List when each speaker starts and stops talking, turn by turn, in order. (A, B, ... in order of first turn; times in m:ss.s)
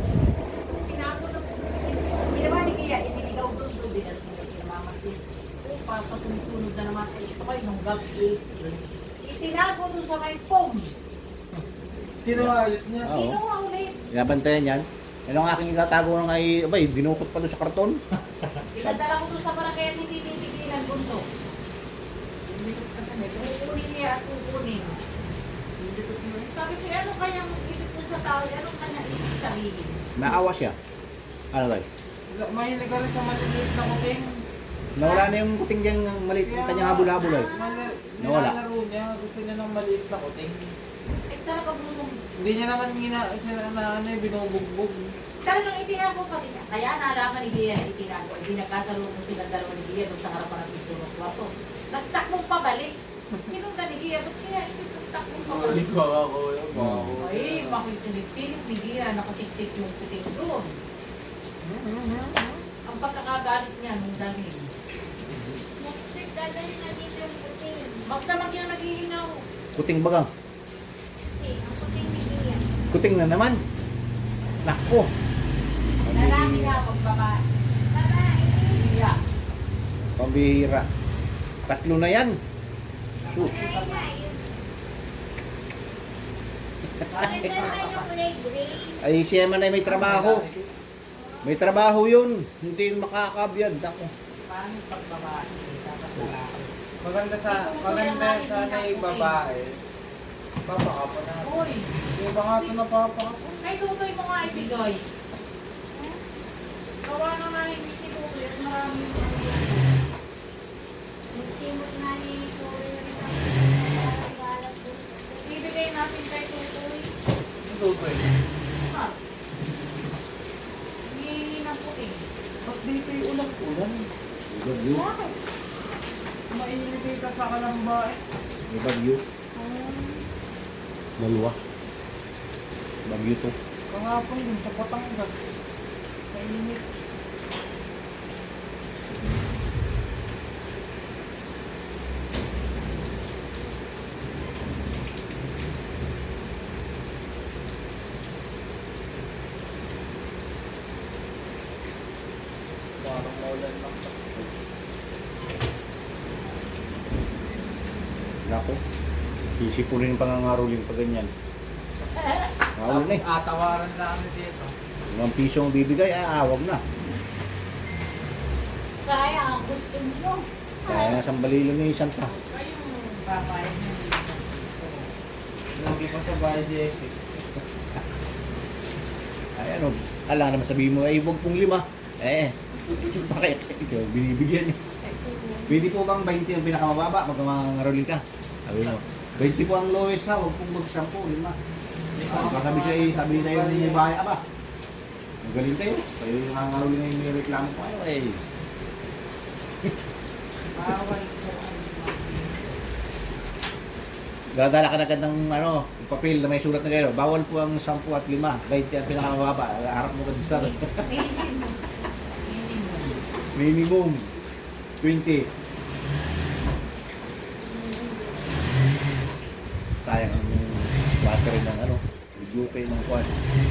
0:00.7-0:08.5 A
0:09.2-0:11.0 A
0:12.2-0:13.1 B
0:12.3-0:13.4 C
0:13.1-0:14.0 A
0:14.1-0:18.0 C
0:18.6-0:19.0 C
0:18.7-0:21.3 A
0:22.5-0:25.0 A
0:25.8-0:30.1 A
0:30.2-0:30.8 C
0:31.5-0:31.9 C
0:32.3-0:34.4 B
0:35.0-0:37.5 C
0:35.0-0:35.3 A
0:36.4-0:40.8 B
0:37.2-0:37.9 A
0:38.2-0:38.6 C
0:41.3-0:42.2 A
0:42.4-0:45.2 B
0:45.4-0:52.9 A
0:53.5-0:55.9 A
0:55.4-0:57.8 B
0:56.7-0:57.2 C
0:57.2-1:00.8 A
1:01.6-1:02.6 B
1:02.9-1:04.7 A
1:05.8-1:08.1 D
1:08.0-1:09.4 A
1:09.8-1:10.3 C
1:11.4-1:12.7 D
1:12.9-1:13.6 C
1:14.6-1:15.1 C
1:16.0-1:16.8 C
1:16.0-1:17.4 A
1:17.9-1:18.8 D
1:18.6-1:19.2 A
1:20.2-1:20.9 C
1:21.7-1:22.4 C
1:23.2-1:24.1 A
1:23.3-1:23.6 C
1:23.4-1:24.6 D
1:27.1-1:28.1 A
1:27.1-1:29.0 D
1:29.0-1:30.4 C
1:29.9-1:30.7 B
1:31.1-1:31.9 D
1:31.4-1:34.1 C
1:34.5-1:36.7 A
1:37.0-1:39.8 B
1:37.5-1:39.4 A
1:40.7-1:43.6 B
1:41.4-1:42.8 A
1:43.6-1:45.1 A
1:47.0-1:49.9 A
1:51.3-1:55.7 D
1:55.4-1:57.1 A
1:57.6-1:58.3 B
1:58.8-1:59.2 A
2:01.1-2:02.3 A
2:02.6-2:04.1 B
2:04.5-2:05.1 C
2:04.9-2:05.4 A
2:06.5-2:08.2 B
2:08.7-2:09.2 C
2:09.6-2:10.2 D
2:11.2-2:11.6 C
2:13.1-2:13.5 C
2:13.9-2:15.5 B
2:16.3-2:16.8 B
2:33.0-2:34.3 B
2:38.4-2:38.8 C
2:39.6-2:41.3 C
2:42.8-2:43.2 C
2:42.9-2:44.8 B
2:45.1-2:46.8 C
2:49.0-2:51.2 A
2:50.8-2:52.3 C
2:52.2-2:55.1 A
2:55.8-2:57.2 B
2:59.6-3:04.8 C
3:05.2-3:05.7 D
3:05.7-3:11.6 C
3:12.2-3:14.1 B
3:12.3-3:14.4 C
3:15.4-3:18.4 C
3:20.7-3:22.8 A
3:24.5-3:31.1 C
3:31.2-3:31.7 D
3:32.4-3:33.2 A
3:33.6-3:34.3 C
3:35.0-3:35.5 C
3:37.6-3:38.5 D
3:40.0-3:43.3 C